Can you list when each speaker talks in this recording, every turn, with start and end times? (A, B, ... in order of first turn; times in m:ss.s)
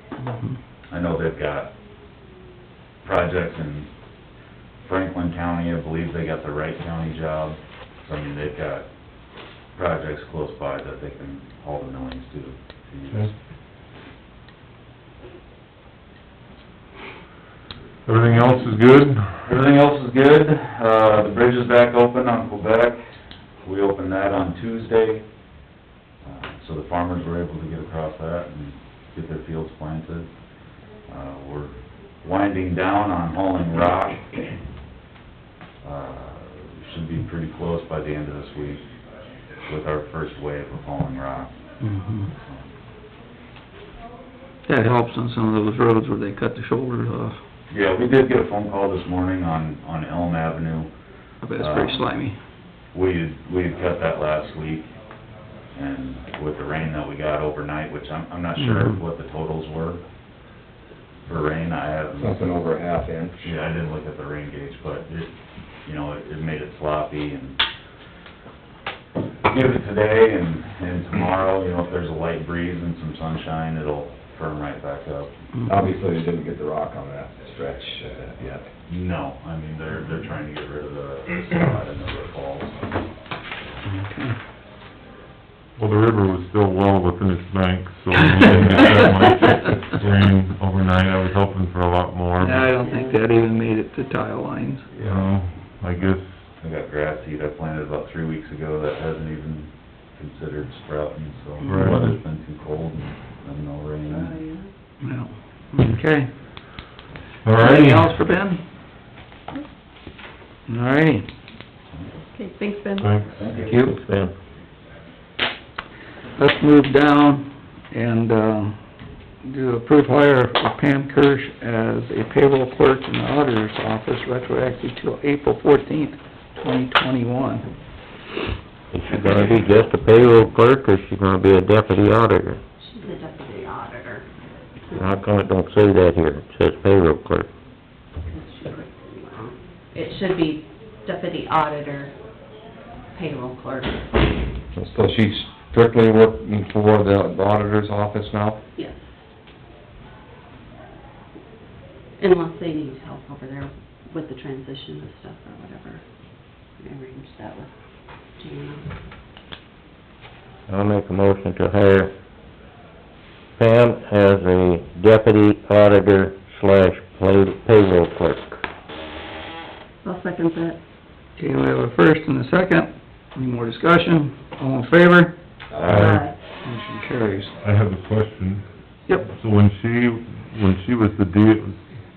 0:00.2-0:00.6 A
0:00.9-0:01.7 B
0:03.0-0:03.9 B
0:04.8-0:08.9 B
0:09.7-0:13.3 B
0:18.0-0:19.3 C
0:19.4-0:23.0 B
0:23.6-0:25.2 B
0:26.2-0:30.3 B
0:31.0-0:34.4 B
0:35.8-0:38.8 B
0:39.6-0:41.6 B
0:41.8-0:42.3 A
0:42.4-0:42.7 B
0:44.6-0:47.4 A
0:47.7-0:50.9 B
0:51.4-0:52.4 A
0:51.6-0:52.1 B
0:52.9-0:54.9 B
0:55.7-1:00.0 B
0:58.6-0:59.0 A
1:01.2-1:02.6 B
1:02.2-1:03.5 D
1:03.4-1:05.3 B
1:05.8-1:07.6 B
1:09.4-1:15.3 B
1:15.6-1:18.7 D
1:18.8-1:22.8 B
1:23.8-1:24.4 A
1:25.8-1:32.7 C
1:28.4-1:28.9 A
1:32.4-1:34.9 A
1:32.7-1:33.2 E
1:35.0-1:36.2 C
1:35.0-1:35.3 B
1:36.6-1:44.4 B
1:41.6-1:42.2 C
1:44.1-1:44.7 E
1:45.0-1:46.3 A
1:47.4-1:48.2 C
1:47.5-1:48.6 A
1:50.7-1:51.3 A
1:52.3-1:53.0 E
1:53.0-1:53.4 C
1:53.4-1:53.8 B
1:53.5-1:54.0 A
1:53.8-1:54.4 F
1:56.3-1:58.8 A
1:59.4-2:07.7 A
2:08.9-2:12.6 F
2:09.1-2:09.7 A
2:12.8-2:14.3 E
2:14.9-2:15.2 E
2:14.9-2:17.5 F
2:18.2-2:22.1 E
2:23.1-2:24.2 E
2:24.8-2:28.6 D
2:28.8-2:29.2 E
2:32.2-2:36.0 E
2:36.8-2:37.7 E
2:38.4-2:38.9 E
2:40.7-2:42.1 F
2:43.6-2:48.6 F
2:50.0-2:50.8 E
2:51.4-2:55.4 A
2:55.7-2:56.0 D
2:55.8-2:56.3 C
2:55.9-2:56.3 E
2:56.6-2:57.5 A
2:57.5-3:01.9 C